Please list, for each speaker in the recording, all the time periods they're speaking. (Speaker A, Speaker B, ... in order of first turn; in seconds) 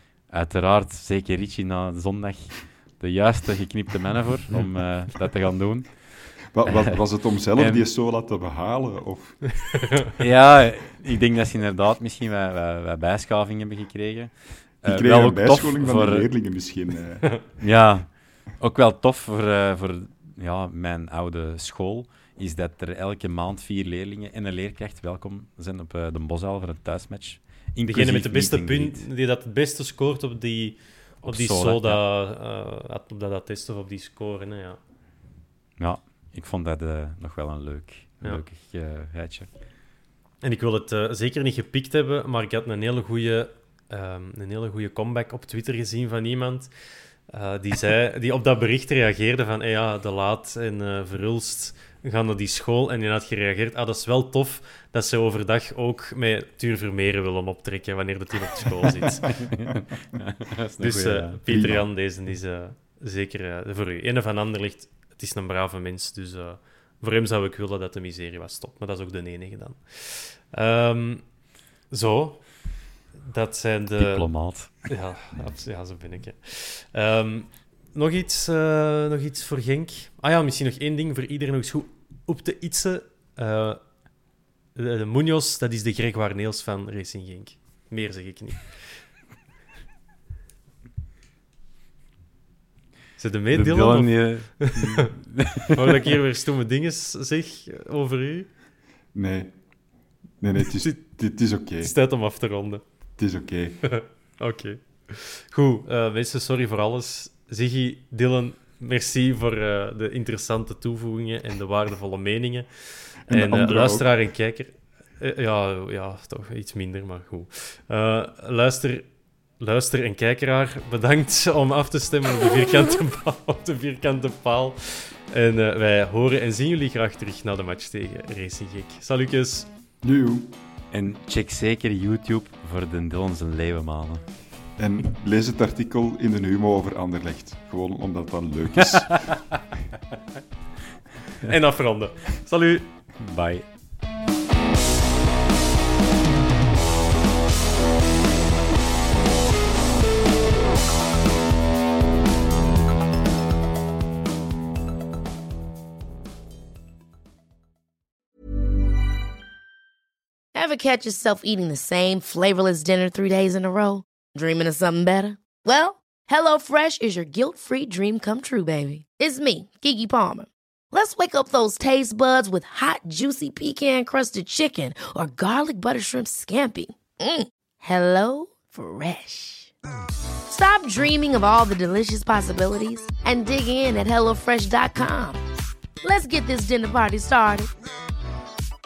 Speaker A: 0.3-7.9, 10.2-16.3, 17.6-29.1, 31.2-32.0, 35.8-39.5, 59.3-61.4, 74.0-74.9, 93.5-96.2, 130.9-134.2, 138.8-139.5, 143.2-143.7
Speaker B: 6.5-9.5, 14.8-17.4, 61.5-61.9, 99.1-99.5, 100.4-101.9, 103.2-103.8, 113.3-114.1, 130.0-130.5, 134.8-139.3
Speaker C: 27.9-34.8, 40.4-46.7, 47.3-59.3, 60.8-71.2, 71.9-72.5, 73.2-74.3, 74.8-83.8, 84.7-89.0, 93.2-95.0, 95.7-98.5, 101.8-102.8, 103.8-119.1, 119.6-129.7, 141.4-142.9
Speaker D: 160.5-179.7, 180.5-185.4, 186.0-187.7